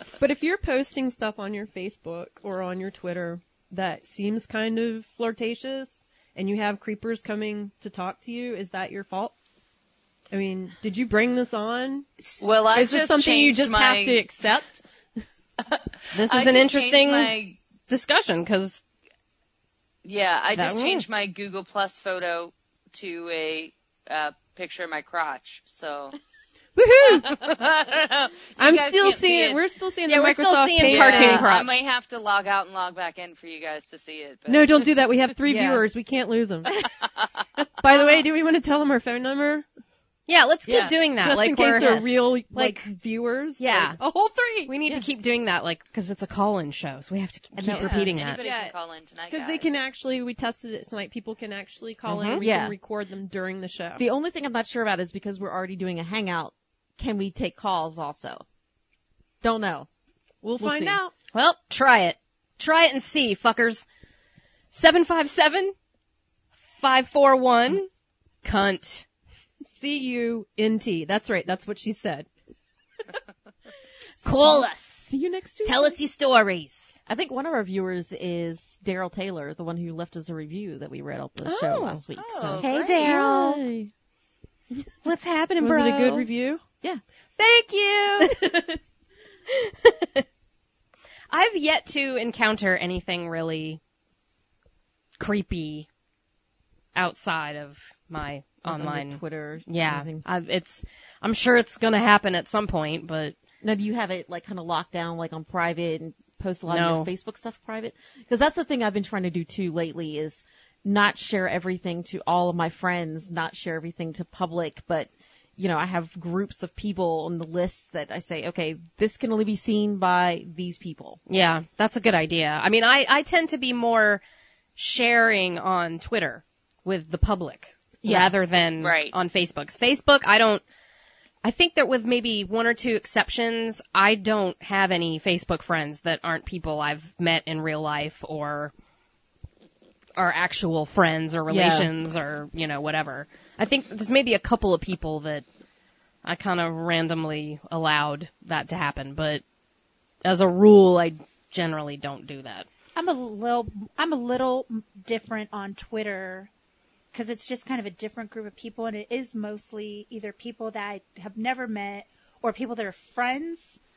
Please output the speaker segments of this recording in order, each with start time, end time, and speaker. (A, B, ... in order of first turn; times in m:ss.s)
0:00.2-0:09.3 A
0:10.3-0:14.8 A
0:12.4-0:14.2 B
0:15.6-0:17.6 B
0:16.1-0:17.3 C
0:17.8-0:18.8 C
0:20.0-0:26.2 B
0:20.5-0:21.0 C
0:26.8-0:27.5 A
0:27.1-0:29.6 B
0:28.6-0:31.6 A
0:30.1-0:31.8 C
0:30.8-0:35.0 B
0:34.5-0:36.7 A
0:35.5-0:35.8 D
0:37.8-0:39.6 A
0:40.3-0:42.6 C
0:40.7-0:40.9 B
0:41.1-0:44.7 A
0:42.5-0:42.8 D
0:43.6-0:44.0 C
0:44.7-0:48.4 C
0:47.6-0:48.3 D
0:47.7-0:49.7 B
0:48.4-0:48.8 A
0:49.3-0:54.0 A
0:52.1-0:52.4 C
0:52.4-0:52.8 D
0:54.0-0:58.4 D
0:59.4-0:59.9 D
1:00.4-1:01.1 A
1:00.6-1:01.0 D
1:01.3-1:03.8 C
1:04.7-1:05.7 C
1:06.7-1:07.9 C
1:08.4-1:09.0 C
1:09.6-1:12.3 A
1:14.2-1:15.1 C
1:14.2-1:16.0 D
1:15.6-1:17.0 C
1:17.1-1:23.9 D
1:21.4-1:23.6 C
1:22.2-1:23.1 B
1:25.0-1:26.3 C
1:25.6-1:26.6 A
1:27.4-1:28.5 A
1:29.5-1:30.2 C
1:31.3-1:33.8 C
1:35.2-1:35.9 C
1:36.9-1:43.4 C
1:38.6-1:40.2 D
1:43.6-2:01.2 D
1:46.7-1:47.1 C
2:01.3-2:04.2 C
2:04.8-2:10.6 C
2:08.0-2:08.3 D
2:08.8-2:09.1 B
2:11.4-2:18.7 C
2:20.2-2:25.4 C
2:21.5-2:21.9 D
2:26.2-2:29.4 C
2:30.2-2:32.7 C
2:33.0-2:36.5 E
2:37.1-2:43.8 E